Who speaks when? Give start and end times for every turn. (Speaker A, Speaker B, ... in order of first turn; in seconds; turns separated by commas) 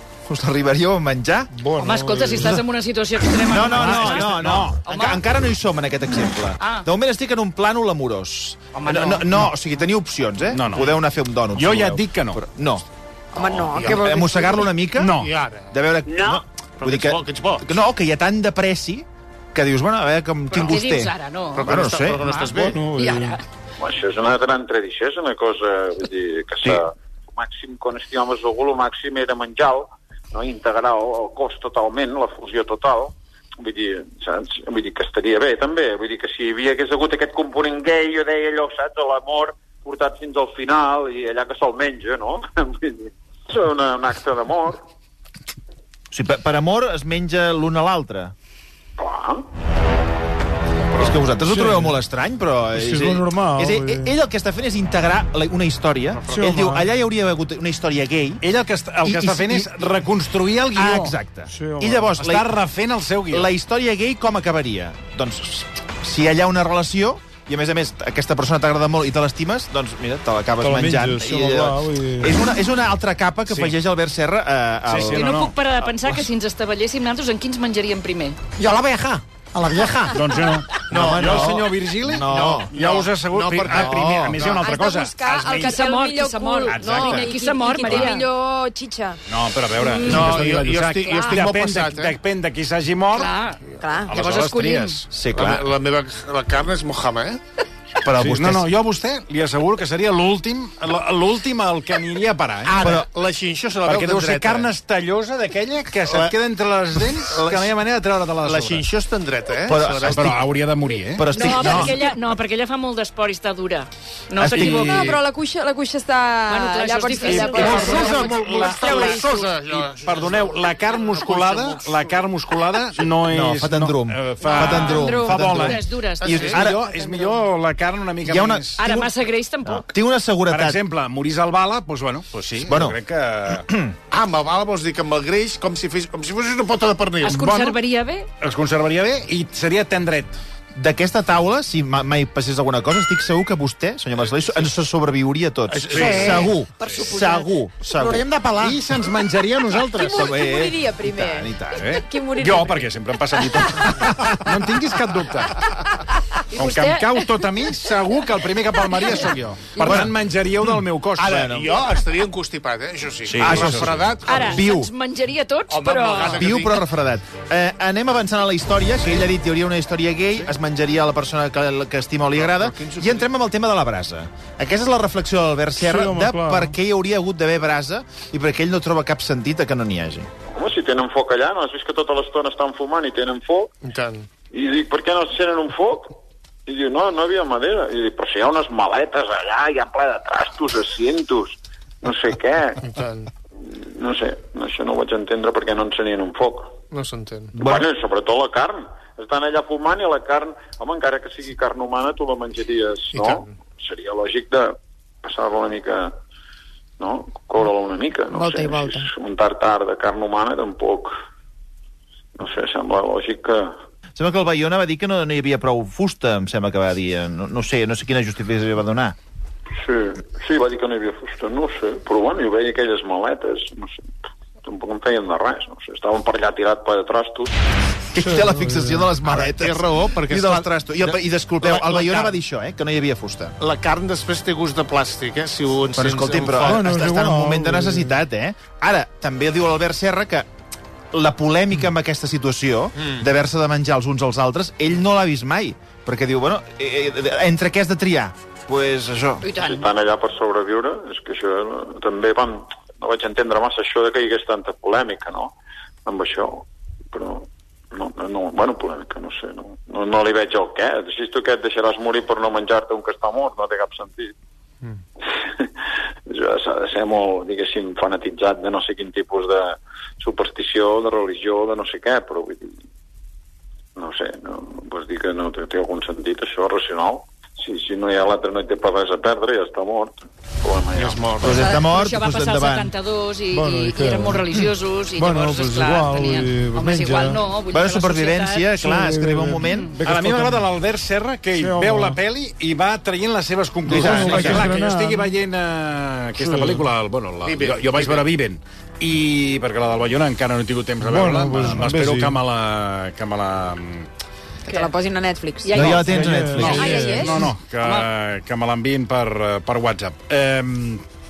Speaker A: 0.3-1.5, Speaker B: 1.5-2.6, Speaker C: 1.8-5.2, Speaker A: 3.5-12.8, Speaker D: 3.7-4.8, Speaker C: 8.7-9.5, Speaker D: 10.5-10.9, Speaker D: 11.5-12.4, Speaker E: 13.3-14.7, Speaker F: 13.3-13.9, Speaker A: 13.5-15.1, Speaker D: 14.9-15.3, Speaker F: 15.1-15.7, Speaker A: 15.7-22.8, Speaker G: 16.1-16.4, Speaker F: 16.8-17.7, Speaker C: 20.5-23.4, Speaker F: 21.5-22.8, Speaker B: 22.7-23.4, Speaker G: 23.8-44.8, Speaker A: 46.1-48.3, Speaker G: 49.0-49.4, Speaker F: 50.8-51.2, Speaker A: 51.0-58.4, Speaker B: 51.5-52.0, Speaker B: 52.7-54.1, Speaker F: 56.1-56.4, Speaker B: 56.3-56.9, Speaker D: 58.4-61.1, Speaker A: 59.0-59.7, Speaker A: 60.7-62.5, Speaker B: 61.5-62.1, Speaker D: 62.2-63.5, Speaker A: 63.3-75.3, Speaker B: 70.6-72.4, Speaker D: 73.5-73.7, Speaker D: 74.8-75.5, Speaker C: 75.1-78.4, Speaker A: 75.8-76.3, Speaker D: 80.0-85.8, Speaker F: 80.9-81.6, Speaker A: 80.9-82.7, Speaker F: 82.3-84.6, Speaker A: 83.7-84.5, Speaker E: 84.6-89.2, Speaker C: 85.5-88.3, Speaker D: 86.7-88.1, Speaker D: 89.3-93.3, Speaker C: 89.7-90.3, Speaker F: 90.0-92.2, Speaker C: 93.1-95.0, Speaker E: 93.8-94.1, Speaker D: 94.0-95.1, Speaker A: 95.1-95.7, Speaker F: 95.3-97.4, Speaker D: 98.0-102.8, Speaker A: 98.2-98.6, Speaker F: 102.6-104.7, Speaker A: 102.8-103.1, Speaker D: 103.8-108.8, Speaker F: 107.2-107.8, Speaker F: 108.4-110.4, Speaker A: 109.7-110.4, Speaker D: 110.0-111.9, Speaker A: 111.1-112.0, Speaker C: 111.3-114.7, Speaker A: 114.4-115.1, Speaker D: 114.5-115.2, Speaker E: 114.6-118.7, Speaker C: 116.5-119.3, Speaker D: 117.2-129.1, Speaker F: 117.6-121.8, Speaker A: 123.2-126.8, Speaker C: 124.5-127.4, Speaker F: 126.2-126.7, Speaker A: 128.2-129.1, Speaker C: 128.8-129.9, Speaker A: 129.6-130.8, Speaker D: 130.5-133.7, Speaker A: 132.7-133.0, Speaker A: 133.6-133.9, Speaker F: 134.1-137.5, Speaker C: 137.2-138.3, Speaker D: 138.4-140.4, Speaker A: 140.8-148.3, Speaker F: 145.7-146.5, Speaker D: 145.9-147.1, Speaker E: 146.9-147.3, Speaker D: 148.5-150.3, Speaker E: 149.9-151.5, Speaker A: 150.1-152.0, Speaker D: 151.7-155.8, Speaker E: 152.0-152.8, Speaker A: 154.0-154.6, Speaker D: 156.5-161.4, Speaker C: 156.5-157.3, Speaker A: 159.8-160.1, Speaker F: 161.2-164.6, Speaker A: 161.3-161.8, Speaker D: 163.3-164.0, Speaker A: 163.4-164.9, Speaker C: 164.2-166.5, Speaker F: 165.7-166.8, Speaker A: 166.2-180.3, Speaker F: 172.3-173.3, Speaker B: 175.8-176.7, Speaker G: 180.5-183.7, Speaker F: 183.8-184.3, Speaker G: 184.5-192.8, Speaker F: 192.8-193.3, Speaker G: 193.6-196.7, Speaker F: 196.9-197.6, Speaker A: 197.6-197.9, Speaker G: 197.6-206.1, Speaker F: 203.1-203.4, Speaker G: 207.0-211.1, Speaker E: 208.3-209.1, Speaker G: 212.3-213.7, Speaker A: 214.2-219.1, Speaker G: 219.8-224.1, Speaker G: 224.6-227.6, Speaker A: 228.1-233.5, Speaker B: 228.1-229.1, Speaker F: 229.2-230.7, Speaker F: 231.6-232.4, Speaker F: 233.6-236.8, Speaker A: 235.9-240.4, Speaker B: 236.6-238.2, Speaker A: 241.1-249.4, Speaker C: 249.4-249.8, Speaker G: 249.6-255.5, Speaker G: 256.1-264.3, Speaker G: 266.3-272.7, Speaker G: 273.9-281.5, Speaker F: 280.9-281.7, Speaker A: 281.4-282.9, Speaker C: 281.5-288.7, Speaker B: 283.5-284.6, Speaker B: 285.1-287.4, Speaker A: 287.7-289.9, Speaker B: 288.7-290.6, Speaker C: 289.6-289.9, Speaker D: 290.0-304.1, Speaker B: 291.5-292.2, Speaker A: 293.9-294.7, Speaker B: 293.9-295.3, Speaker B: 296.4-296.9, Speaker F: 297.4-298.3, Speaker B: 301.0-302.4, Speaker E: 304.7-305.9, Speaker C: 305.6-307.1, Speaker A: 305.7-307.1, Speaker B: 305.9-307.5, Speaker D: 306.6-311.0, Speaker E: 306.8-307.4, Speaker C: 307.8-308.1